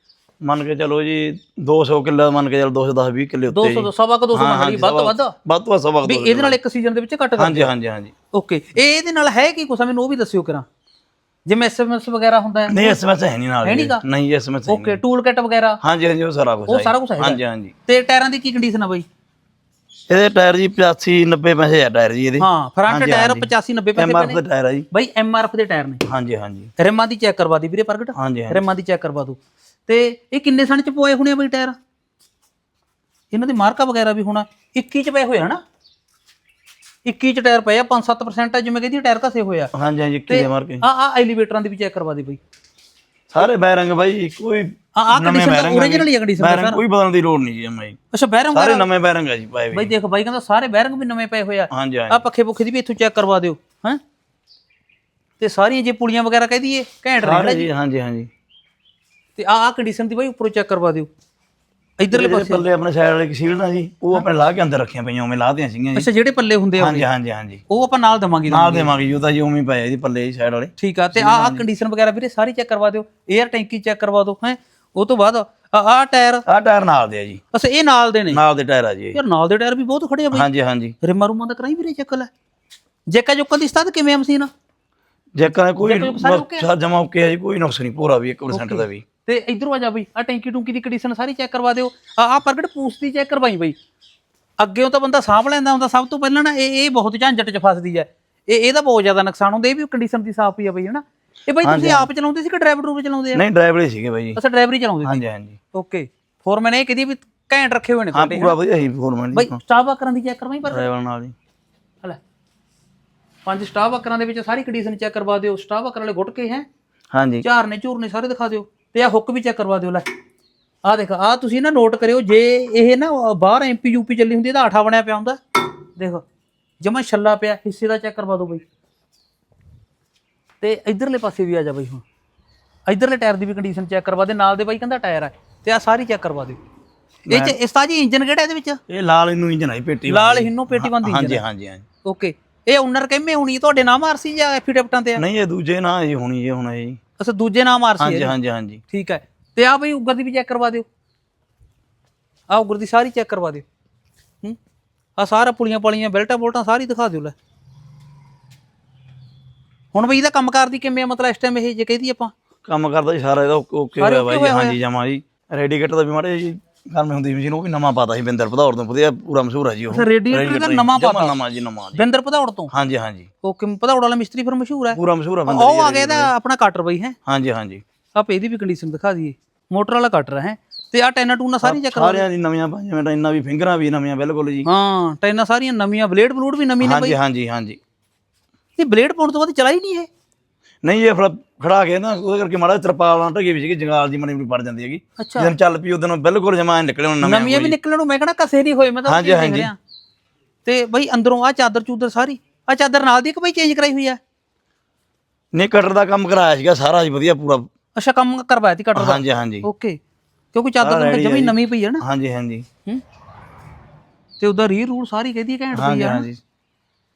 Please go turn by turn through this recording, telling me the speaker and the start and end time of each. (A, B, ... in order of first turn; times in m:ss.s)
0:00.4-0:06.6 A
0:03.5-0:05.3 B
0:06.0-0:07.7 B
0:07.4-0:08.1 A
0:08.3-0:10.6 B
0:11.5-0:13.0 B
0:12.7-0:15.0 A
0:13.6-0:14.0 B
0:14.7-0:15.8 B
0:15.8-0:17.7 A
0:16.7-0:19.0 B
0:20.1-0:24.9 A
0:22.4-0:24.4 B
0:24.9-0:26.0 B
0:26.1-0:26.7 A
0:26.8-0:31.8 B
0:28.2-0:28.6 A
0:33.3-0:35.6 B
0:37.0-0:39.7 B
0:39.7-0:40.8 A
0:40.3-0:42.4 B
0:43.3-0:48.0 A
0:45.0-0:46.8 B
0:48.1-0:48.9 B
0:48.5-0:49.9 A
0:49.7-0:54.0 B
0:51.7-0:52.2 A
0:55.4-0:57.7 B
0:57.2-0:58.3 A
0:59.4-1:01.1 B
1:02.0-1:02.6 B
1:02.1-1:06.1 A
1:06.0-1:07.1 B
1:06.8-1:07.6 A
1:07.7-1:08.9 B
1:08.5-1:11.6 A
1:10.8-1:16.4 B
1:16.5-1:17.4 A
1:17.5-1:18.4 B
1:18.3-1:19.2 A
1:19.2-1:20.5 B
1:20.3-1:21.0 A
1:21.0-1:22.3 B
1:23.1-1:24.5 B
1:25.4-1:29.0 A
1:25.8-1:26.7 B
1:28.5-1:33.8 B
1:34.6-1:43.4 B
1:41.6-1:42.1 A
1:43.4-1:44.4 A
1:44.4-1:45.2 B
1:45.0-1:45.6 A
1:45.7-1:48.6 B
1:48.1-1:49.6 A
1:49.4-1:50.9 B
1:50.7-1:51.4 A
1:53.5-1:56.7 B
1:57.1-1:57.4 A
1:57.4-2:00.1 B
2:00.8-2:05.4 B
2:06.0-2:06.2 B
2:06.8-2:08.6 B
2:10.6-2:12.0 B
2:12.9-2:16.6 B
2:17.3-2:17.6 A
2:17.3-2:18.8 B
2:18.9-2:21.8 A
2:20.1-2:21.4 B
2:22.0-2:25.2 B
2:25.2-2:27.0 A
2:27.2-2:28.3 B
2:28.0-2:28.8 A
2:28.9-2:30.9 B
2:32.5-2:33.6 B
2:35.2-2:37.4 B
2:39.9-2:42.3 B
2:42.7-2:52.0 A
2:44.0-2:44.8 B
2:49.9-2:51.4 B
2:52.0-2:52.7 B
2:52.7-2:53.3 A
2:53.4-2:57.2 B
2:54.9-2:56.3 A
2:57.3-2:57.8 A
2:58.2-3:02.2 B
3:01.6-3:04.7 A
3:04.6-3:07.2 B
3:06.8-3:07.8 A
3:08.8-3:10.1 B
3:10.8-3:17.8 A
3:15.2-3:15.5 B
3:17.2-3:19.8 B
3:19.1-3:19.7 A
3:20.6-3:24.2 B
3:25.5-3:27.7 A
3:28.0-3:30.0 B
3:29.0-3:29.7 A
3:30.5-3:32.0 B
3:30.8-3:32.7 A
3:34.4-3:36.3 B
3:35.8-3:36.4 A